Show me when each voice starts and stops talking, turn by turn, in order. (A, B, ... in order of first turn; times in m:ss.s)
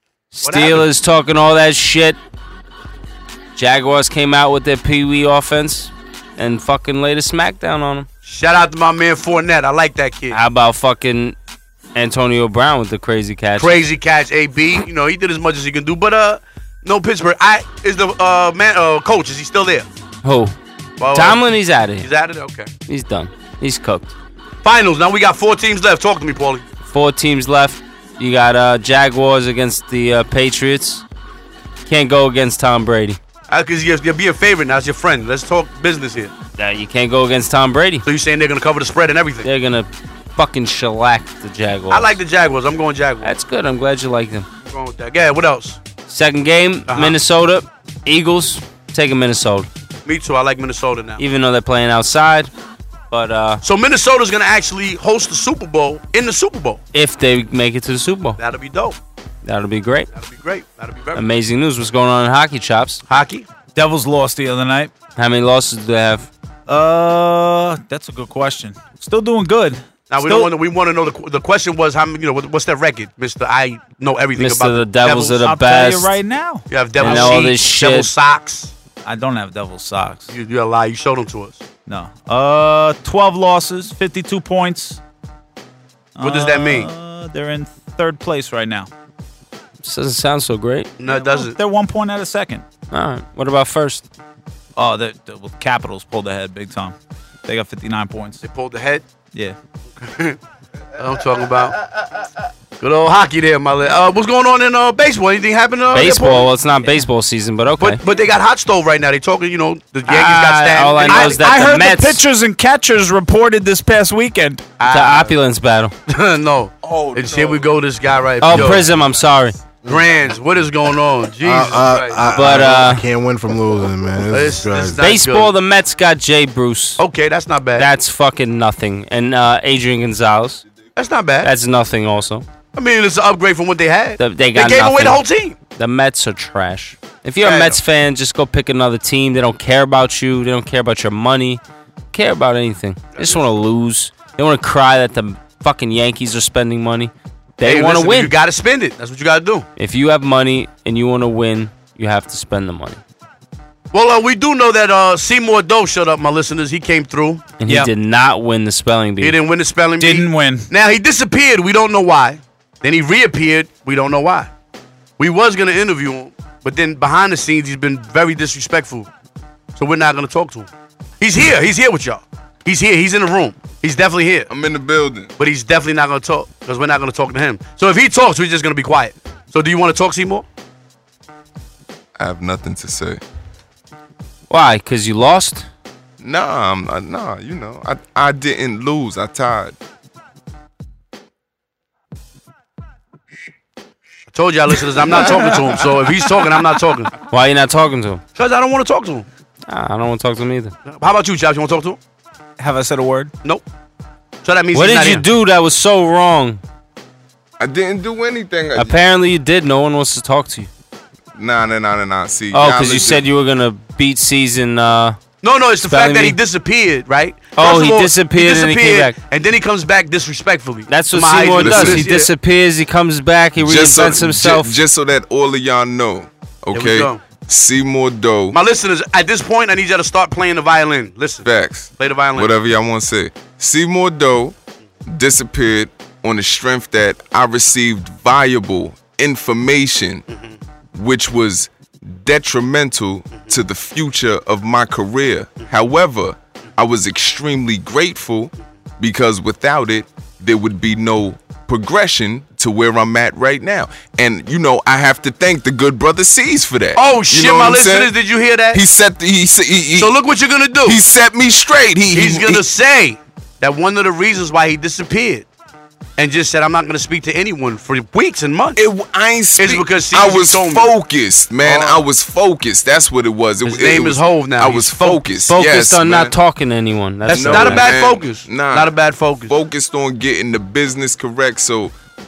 0:00.3-0:02.2 A
0:00.4-0:00.9 B
0:03.6-0:08.1 A
0:08.2-0:10.4 B
0:10.3-0:11.4 A
0:12.0-0:13.8 A
0:13.6-0:19.9 B
0:20.2-0:20.6 A
0:21.0-0:22.7 B
0:21.1-0:22.1 A
0:22.9-0:24.2 A
0:24.6-0:26.6 B
0:26.9-0:31.0 A
0:31.9-0:33.2 A
0:33.5-0:36.3 B
0:36.6-0:38.1 A
0:38.1-0:39.5 B
0:39.4-0:42.2 A
0:41.9-0:43.4 B
0:43.2-0:44.5 A
0:44.7-0:45.8 B
0:46.1-0:49.7 A
0:46.9-0:47.2 B
0:50.1-0:51.2 B
0:51.2-0:52.5 A
0:53.1-0:53.6 A
0:53.6-0:56.8 B
0:56.9-0:58.4 A
0:58.4-0:59.0 B
0:59.4-1:00.1 A
1:00.2-1:01.2 B
1:01.2-1:03.0 A
1:03.1-1:03.5 B
1:03.8-1:04.9 C
1:05.2-1:06.3 A
1:06.7-1:10.5 C
1:10.1-1:15.4 B
1:14.4-1:16.2 A
1:15.4-1:17.5 C
1:16.7-1:18.7 B
1:17.0-1:18.1 A
1:19.0-1:20.3 C
1:20.3-1:21.6 B
1:21.9-1:25.0 C
1:26.2-1:28.9 C
1:26.2-1:26.9 B
1:29.8-1:30.9 A
1:31.0-1:31.6 B
1:31.1-1:32.6 C
1:32.9-1:34.0 A
1:34.8-1:38.4 C
1:38.4-1:39.0 B
1:40.0-1:40.4 B
1:41.0-1:41.8 B
1:42.8-1:46.5 B
1:45.9-1:48.0 A
1:47.8-1:51.4 B
1:50.1-1:52.2 A
1:51.0-1:54.6 C
1:54.8-1:55.4 B
1:54.9-1:55.9 A
1:56.1-1:58.9 B
1:58.4-1:59.6 A
1:59.8-2:02.3 B
2:01.4-2:05.0 D
2:02.3-2:03.0 A
2:04.3-2:05.5 B
2:05.0-2:07.0 A
2:07.0-2:07.9 B
2:07.8-2:10.6 A
2:11.0-2:11.5 B
2:11.4-2:12.4 A
2:12.7-2:15.6 B
2:14.2-2:15.2 A
2:15.8-2:21.6 A
2:17.4-2:17.8 B
2:22.1-2:28.3 A
2:23.2-2:23.4 B
2:27.6-2:29.7 B
2:29.8-2:33.0 A
2:33.9-2:37.5 B
2:37.6-2:39.4 A
2:37.6-2:37.9 C
2:39.2-2:44.5 B
2:40.0-2:40.7 C
2:45.2-2:49.1 B
2:49.8-2:50.7 B
2:51.2-2:54.5 B
2:54.5-2:55.3 E
2:55.4-3:00.5 B
3:02.2-3:03.2 E
3:04.5-3:05.7 A
3:06.2-3:09.8 E
3:14.3-3:17.2 B
3:17.3-3:18.2 A
3:18.4-3:19.3 B
3:19.7-3:20.7 A
3:20.9-3:22.0 B
3:22.6-3:23.3 C
3:24.4-3:25.2 B
3:24.7-3:26.6 A
3:27.6-3:29.0 E
3:28.7-3:30.7 A
3:31.4-3:33.3 E
3:32.5-3:35.2 A
3:35.4-3:42.3 B
3:35.8-3:36.4 A
3:37.6-3:39.2 A
3:40.9-3:44.8 A
3:41.6-3:42.1 E
3:43.6-3:48.6 E
3:46.7-3:47.2 B
3:48.5-3:51.5 B
3:51.4-3:54.6 E
3:52.0-3:52.5 B
3:55.1-4:00.2 E
4:00.9-4:18.1 E
4:17.0-4:18.8 B
4:18.7-4:20.1 E
4:20.0-4:21.0 B
4:20.8-4:22.6 E
4:22.1-4:25.5 B
4:26.2-4:28.8 B
4:28.8-4:36.4 E
4:29.6-4:30.9 B
4:31.7-4:32.0 B
4:33.6-4:35.3 B
4:35.5-4:38.0 A
4:37.3-4:39.6 B
4:37.3-4:42.0 E